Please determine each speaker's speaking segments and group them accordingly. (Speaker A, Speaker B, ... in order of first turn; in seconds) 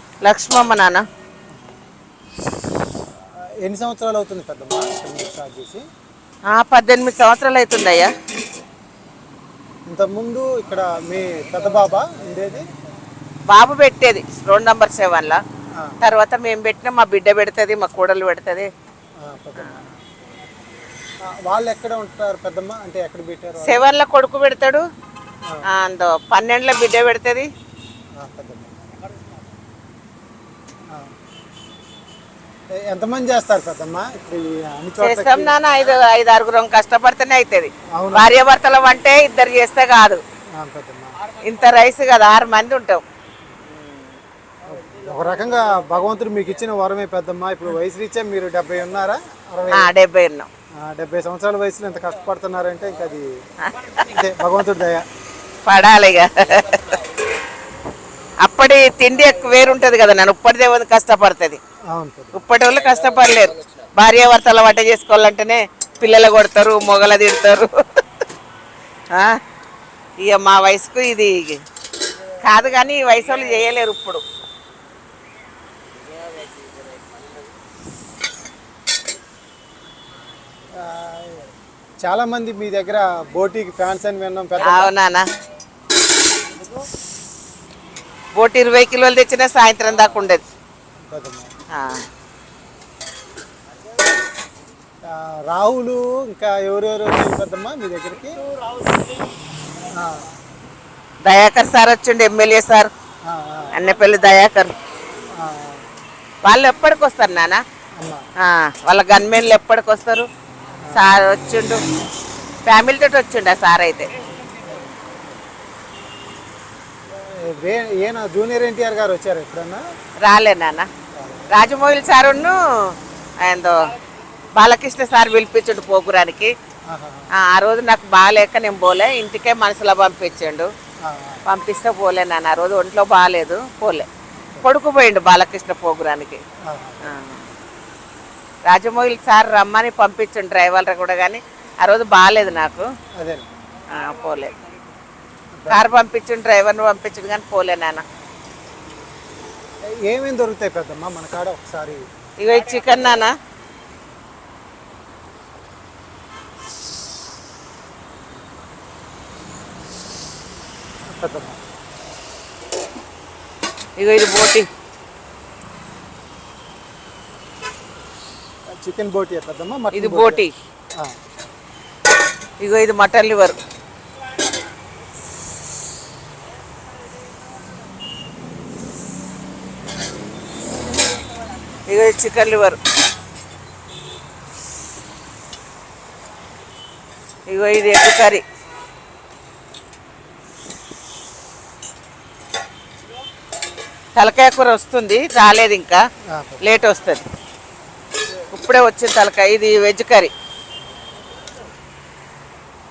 Speaker A: 0.2-1.0, 6.5-8.1, 13.5-15.4, 16.0-18.7, 23.6-24.8, 25.7-27.5, 35.0-40.2, 41.4-43.0, 49.7-50.5, 53.7-53.9, 55.7-57.0, 58.4-61.6, 62.3-67.7, 70.2-71.6, 72.4-74.2, 84.6-85.2, 88.3-90.4, 91.7-92.0, 101.2-102.9, 103.8-104.7, 106.4-107.6, 108.4-110.3, 110.9-111.8, 112.7-114.2, 120.2-120.9, 121.5-123.9, 124.6-126.5, 127.4-130.7, 131.5-134.1, 134.6-136.4, 137.1-137.4, 138.7-142.8, 143.9-144.6, 145.7-148.0, 152.4-153.3, 164.0-164.7, 169.9-170.5, 172.6-173.6, 181.9-182.8, 187.5-188.4, 194.2-196.0, 196.6-197.2, 198.5-200.3
Speaker B: 1.5-1.8, 3.1-5.8, 9.9-12.7, 19.2-20.0, 21.3-23.8, 28.1-28.7, 32.7-35.6, 37.9-38.3, 40.5-41.2, 44.8-49.9, 50.8-53.3, 54.0-55.0, 61.9-62.4, 80.8-81.5, 82.0-84.9, 91.1-91.5, 95.1-98.4, 99.9-100.3, 103.2-103.8, 105.3-105.8, 117.1-119.8, 121.1-121.5, 126.9-127.3, 131.0-131.4, 136.7-137.1, 143.2-143.5, 145.6-145.8, 149.9-152.0, 161.1-161.6, 168.7-170.4, 196.3-196.6